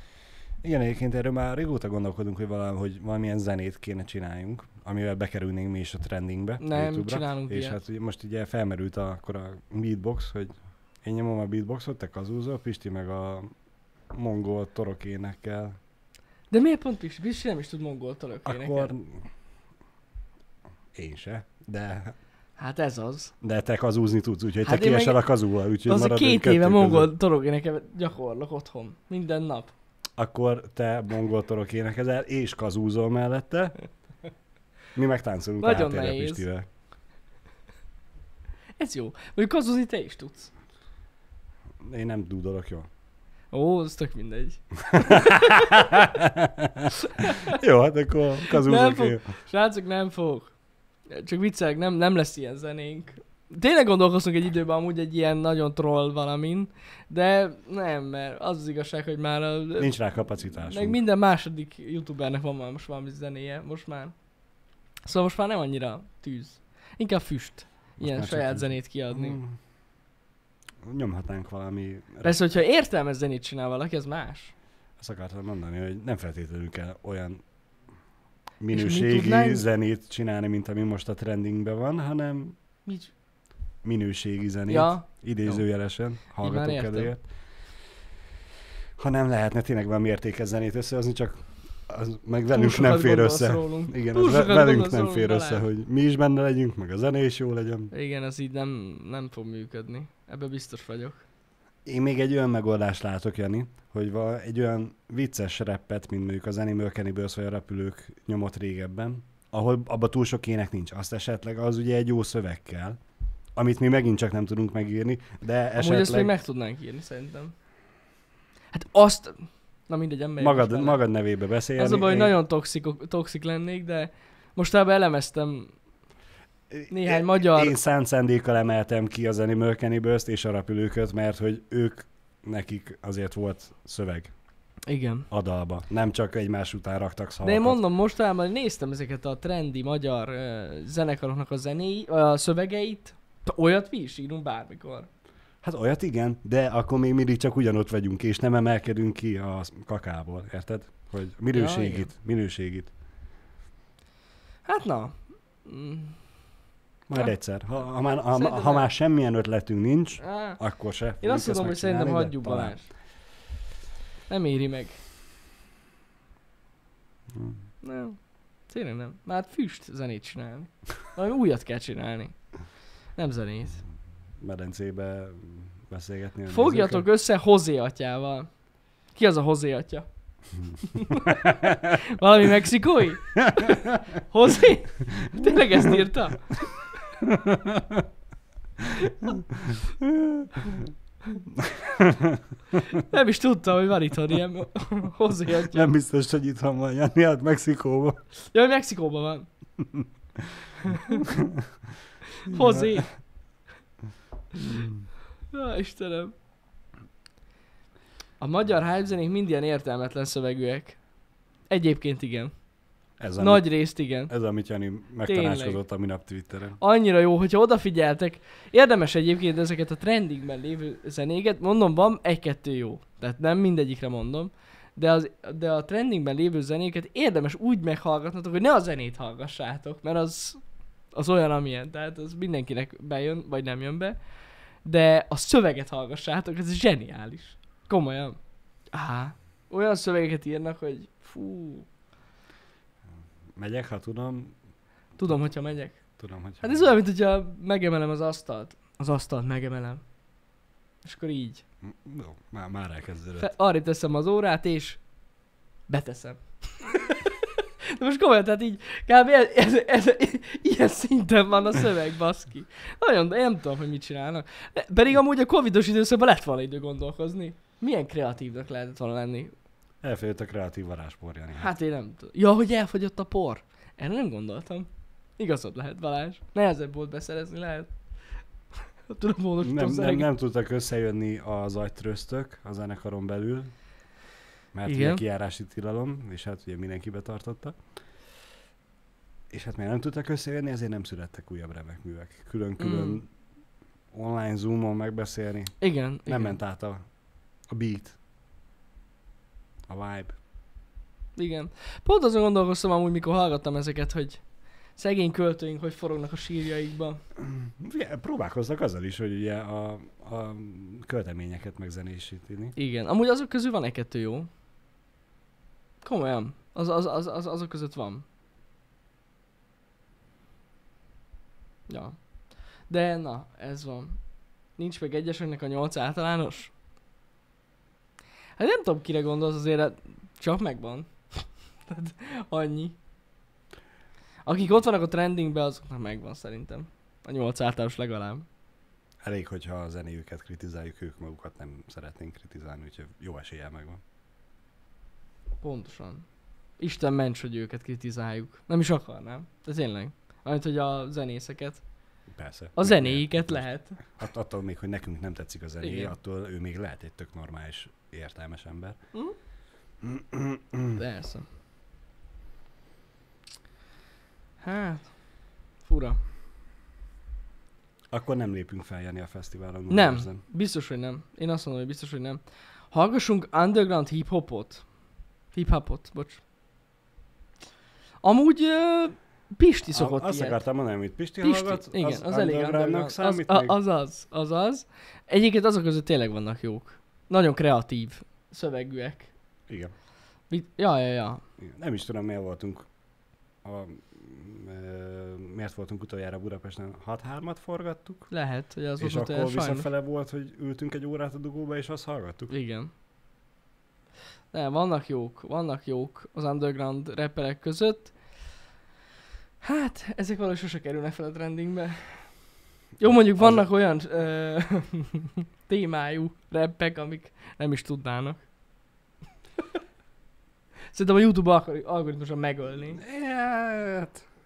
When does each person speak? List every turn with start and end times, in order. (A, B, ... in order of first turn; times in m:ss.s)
0:00.6-0:13.5 A
0:06.6-0:07.8 B
0:14.1-0:15.8 A
0:16.5-0:18.9 B
0:18.4-0:19.3 A
0:20.9-0:22.1 A
0:22.6-0:23.3 B
0:23.4-0:27.1 A
0:24.6-0:25.2 B
0:25.8-0:29.7 B
0:30.2-0:33.7 A
0:34.9-0:36.6 A
0:35.6-0:36.4 B
0:38.8-0:40.5 B
0:41.8-0:42.9 A
0:43.5-0:46.1 B
0:44.9-0:49.3 A
0:47.0-0:47.6 B
0:48.5-0:50.5 B
0:51.1-0:59.9 B
0:59.8-1:01.0 A
1:00.6-1:04.1 B
1:05.0-1:09.4 B
1:08.0-1:09.6 A
1:10.8-1:12.4 A
1:12.2-1:14.5 B
1:15.0-1:17.4 A
1:18.6-1:22.6 A
1:18.7-1:19.6 B
1:22.8-1:23.1 B
1:23.8-1:27.3 A
1:24.7-1:25.6 B
1:26.3-1:27.1 B
1:29.0-1:37.9 A
1:32.5-1:35.6 B
1:37.9-1:41.2 B
1:41.8-1:53.0 A
1:53.6-1:56.3 A
1:55.8-1:57.5 B
1:58.7-2:01.0 B
2:00.4-2:02.4 A
2:01.8-2:05.7 B
2:06.7-2:14.3 A
2:06.9-2:07.8 B
2:14.9-2:15.3 B
2:15.3-2:17.8 A
2:17.4-2:25.1 B
2:25.6-2:32.9 A
2:31.5-2:32.1 B
2:34.6-2:36.2 B
2:37.1-2:42.8 A
2:38.3-2:38.9 B
2:40.2-2:40.6 B
2:41.2-2:42.9 B
2:44.3-2:45.0 B
2:47.3-2:47.6 A
2:47.8-2:48.2 B
2:48.7-2:52.3 B
2:53.2-2:53.8 B
2:54.4-2:57.0 A
2:56.5-2:58.5 B
2:59.1-3:00.0 B
3:00.8-3:06.7 B
3:01.2-3:02.0 A
3:03.4-3:04.0 A
3:05.2-3:06.0 A
3:07.2-3:08.1 A
3:09.0-3:09.4 B
3:09.5-3:10.9 A
3:11.4-3:12.9 A
3:12.9-3:15.9 B
3:15.6-3:18.2 A
3:18.5-3:19.5 B
3:19.8-3:21.7 A
3:20.9-3:21.2 B
3:22.3-3:23.1 B
3:22.5-3:23.1 A
3:24.5-3:25.1 A
3:25.5-3:26.3 B
3:28.4-3:31.0 B
3:31.7-3:32.5 B
3:33.2-3:33.7 A
3:33.4-3:34.3 B
3:34.3-3:36.8 A
3:35.2-3:35.8 B
3:36.8-3:50.6 B
3:51.1-3:54.2 B
3:54.8-3:58.4 B
3:58.9-4:01.9 B
4:03.5-4:04.5 A
4:05.2-4:06.0 B
4:06.2-4:07.0 A
4:06.6-4:10.0 B
4:11.0-4:11.6 B
4:11.8-4:13.5 A
4:13.4-4:15.0 B
4:15.9-4:29.5 B
4:30.0-4:31.7 A
4:31.6-4:37.9 B
4:39.1-4:40.3 B
4:39.6-4:43.7 A
4:44.7-4:47.8 A
4:44.8-4:45.2 B
4:49.5-4:53.3 A
4:52.8-4:53.2 B
4:54.1-4:55.8 A
4:55.8-4:56.6 B
4:56.3-4:57.0 A
4:57.7-4:58.2 A
4:59.9-5:00.4 A
5:01.4-5:04.4 B
5:05.0-5:07.2 B
5:07.4-5:12.7 A
5:12.8-5:14.5 B
5:16.0-5:18.2 B
5:21.9-5:22.2 B
5:22.8-5:24.2 B
5:24.8-5:26.7 B
5:28.6-5:33.0 B
5:34.4-5:38.4 B
5:39.2-5:44.0 A
5:45.6-5:46.2 B
5:46.8-5:51.8 B
5:52.3-5:59.0 A
5:52.8-5:54.0 B
5:55.8-5:56.1 B
6:00.0-6:01.0 A
6:00.9-6:01.4 B
6:04.6-6:05.1 B
6:05.8-6:06.2 B
6:08.1-6:10.4 A
6:09.9-6:14.8 B
6:15.5-6:16.4 B
6:18.2-6:20.6 B
6:19.9-6:23.7 A
6:21.4-6:29.3 B
6:29.7-6:29.9 A
6:30.5-6:31.4 B
6:31.6-6:32.9 A
6:33.6-6:38.3 A
6:38.3-6:39.9 B
6:39.0-6:42.5 A
6:42.5-6:42.9 B
6:44.5-6:48.1 B
6:49.6-6:52.3 B
6:53.0-6:58.4 B
6:53.4-6:53.6 A
7:00.9-7:03.0 B
7:02.9-7:04.2 A